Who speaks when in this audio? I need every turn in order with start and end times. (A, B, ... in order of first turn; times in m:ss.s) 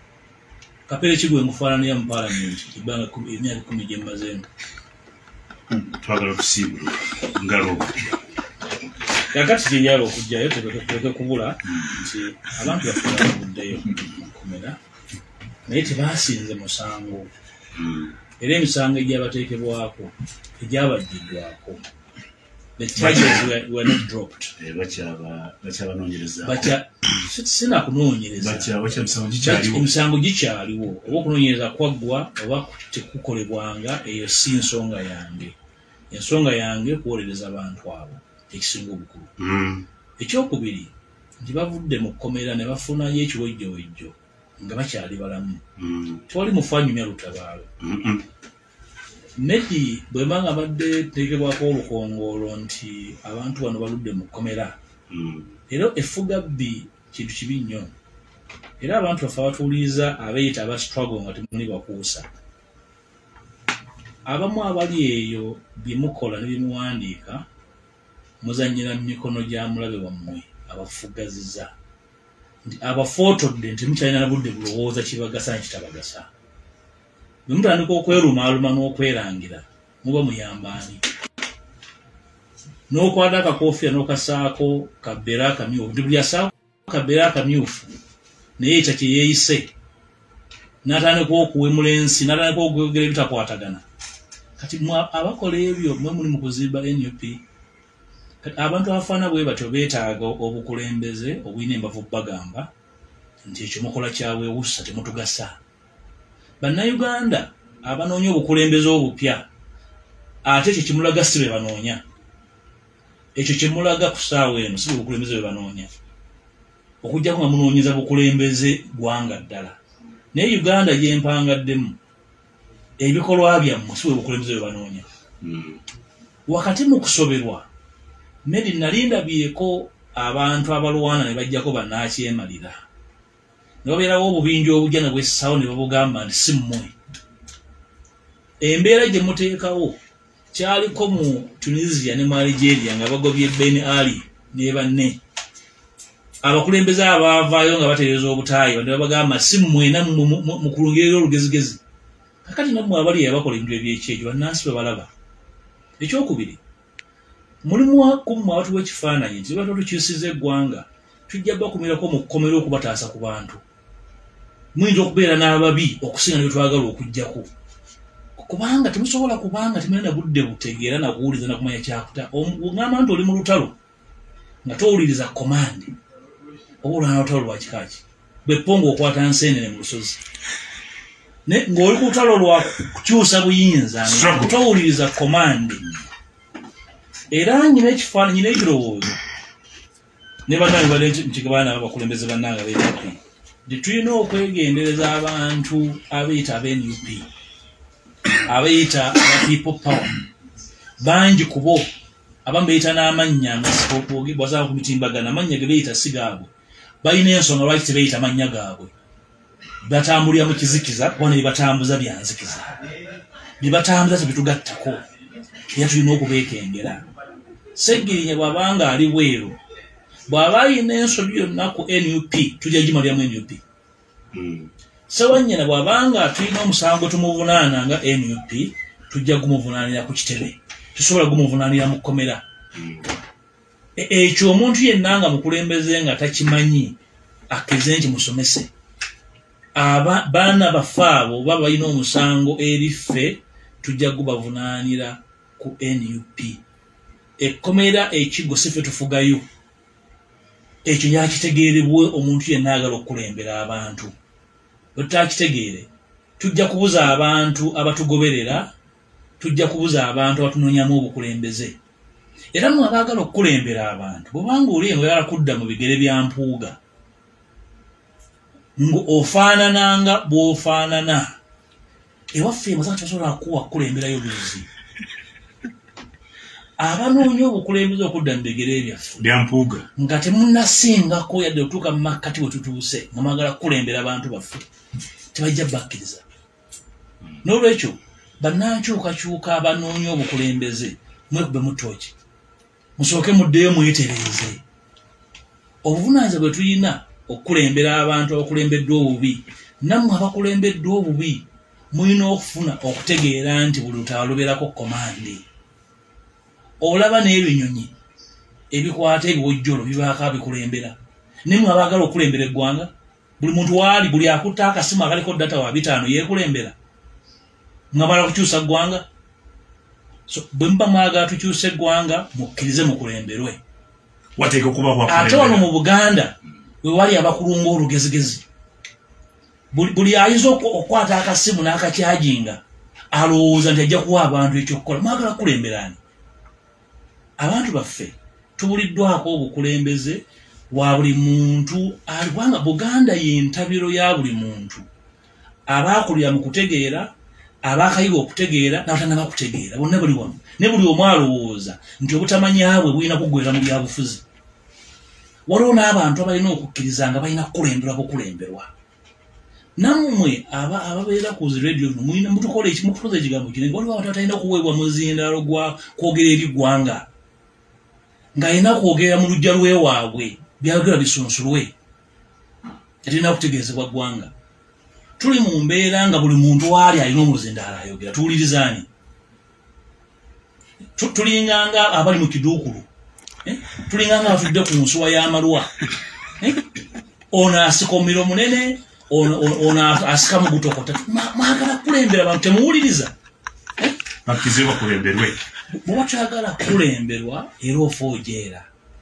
0:00.9-0:04.5 A
0:05.7-0:08.2 B
0:09.3-0:14.8 A
0:11.7-0:12.1 B
0:15.7-0:17.3 A
0:17.7-0:18.2 B
0:18.4-0:21.8 A
0:22.8-0:24.5 A
0:23.0-0:23.6 B
0:24.6-0:26.8 B
0:26.4-0:35.6 A
0:28.4-0:30.0 B
0:36.1-0:39.3 A
0:39.4-0:39.9 B
0:40.2-0:45.6 A
0:45.8-0:46.2 B
0:46.3-0:47.7 A
0:47.8-0:48.2 B
0:49.4-0:54.8 A
0:55.1-0:55.6 B
0:55.7-0:57.9 A
0:58.8-1:02.3 A
1:04.3-1:07.4 A
1:08.4-1:11.7 A
1:12.6-1:16.3 A
1:17.5-1:21.0 A
1:22.9-1:27.9 A
1:28.6-1:29.7 A
1:30.8-1:33.8 A
1:34.6-1:37.4 A
1:38.4-1:42.7 A
1:43.4-1:45.6 A
1:46.6-1:49.5 A
1:50.4-1:52.0 A
1:53.4-1:55.9 A
1:57.0-1:59.8 A
2:00.3-2:02.0 A
2:03.0-2:05.1 A
2:05.4-2:05.8 B
2:06.5-2:07.7 A
2:08.4-2:12.8 A
2:13.8-2:16.9 A
2:18.6-2:20.0 A
2:20.5-2:25.2 A
2:26.4-2:31.8 A
2:32.4-2:35.1 A
2:36.0-2:36.6 A
2:37.6-2:43.6 A
2:44.8-2:47.5 A
2:48.4-2:53.8 A
2:54.6-2:55.9 A
2:56.8-3:00.2 A
3:01.5-3:05.8 A
3:04.0-3:04.6 B
3:07.3-3:09.2 A
3:10.5-3:17.3 A
3:18.5-3:20.2 A
3:21.0-3:21.9 A
3:22.4-3:26.5 A
3:27.0-3:28.9 A
3:29.8-3:32.7 A
3:33.6-3:35.0 A
3:35.7-3:37.0 A
3:37.8-3:39.6 A
3:40.3-3:43.6 A
3:44.3-3:44.7 B
3:45.1-3:52.4 A
3:52.7-3:53.2 B
3:54.0-3:57.0 A
3:57.5-3:58.7 A
3:59.8-4:06.6 A
4:07.4-4:09.4 A
4:10.8-4:14.1 A
4:15.0-4:15.9 A
4:16.4-4:18.7 A
4:19.4-4:21.8 A
4:22.5-4:26.8 A
4:28.8-4:31.3 A
4:32.3-4:34.7 A
4:36.8-4:39.3 A
4:39.2-4:39.9 B
4:40.0-4:44.6 A
4:45.3-4:46.2 A
4:47.4-4:52.1 A
4:53.0-4:54.6 A
4:55.8-5:05.4 A
5:06.8-5:07.9 A
5:08.7-5:16.8 A
5:17.9-5:19.0 A
5:20.3-5:23.6 A
5:24.4-5:25.7 B
5:25.1-5:28.4 A
5:29.7-5:32.6 A
5:33.1-5:36.0 A
5:37.4-5:44.9 A
5:45.7-5:47.1 A
5:47.6-5:54.2 A
5:55.5-5:58.7 A
5:59.8-6:07.1 A
6:08.4-6:11.7 A
6:13.0-6:14.3 A
6:15.2-6:18.9 A
6:21.0-6:22.9 A
6:23.4-6:25.7 A
6:26.4-6:26.6 A
6:27.3-6:33.1 A
6:34.2-6:35.4 B
6:35.8-6:38.6 A